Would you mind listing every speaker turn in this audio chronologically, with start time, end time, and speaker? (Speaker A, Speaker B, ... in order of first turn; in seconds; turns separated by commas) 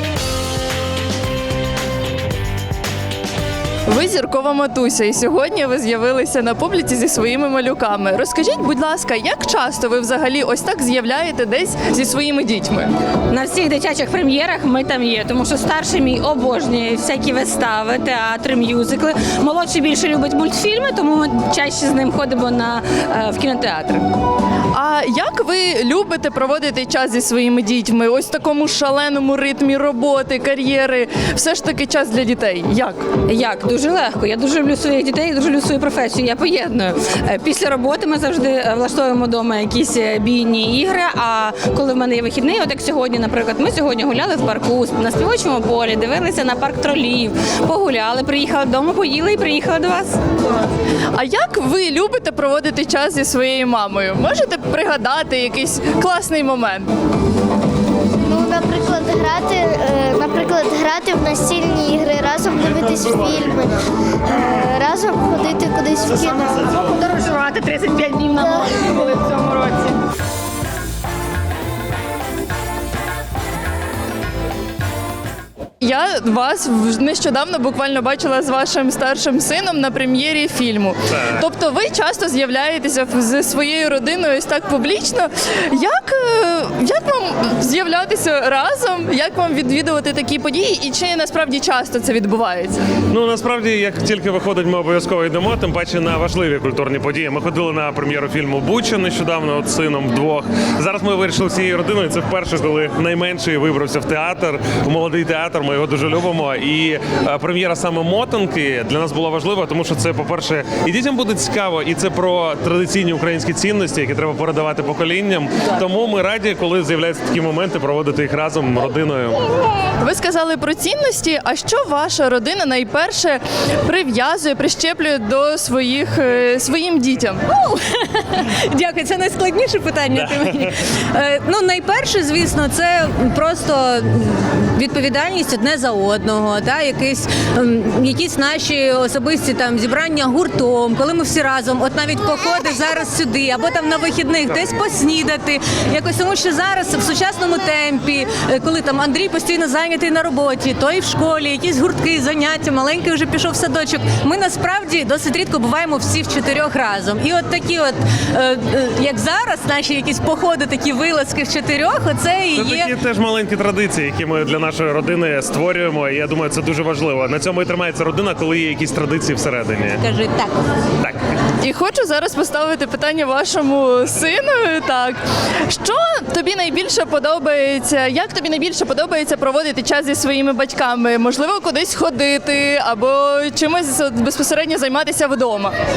Speaker A: 3.9-12.9, Speaker B: 13.3-24.1, Speaker A: 24.7-33.1, Speaker B: 33.2-50.2, Speaker A: 51.1-56.9, Speaker C: 58.2-63.7, Speaker C: 64.3-66.6, Speaker B: 67.0-69.8, Speaker A: 75.8-92.8, Speaker D: 93.1-119.4, Speaker A: 120.0-127.4, Speaker E: 128.7-162.9, Speaker D: 130.1-130.7, Speaker D: 162.5-170.0, Speaker E: 170.0-170.5, Speaker A: 171.6-185.7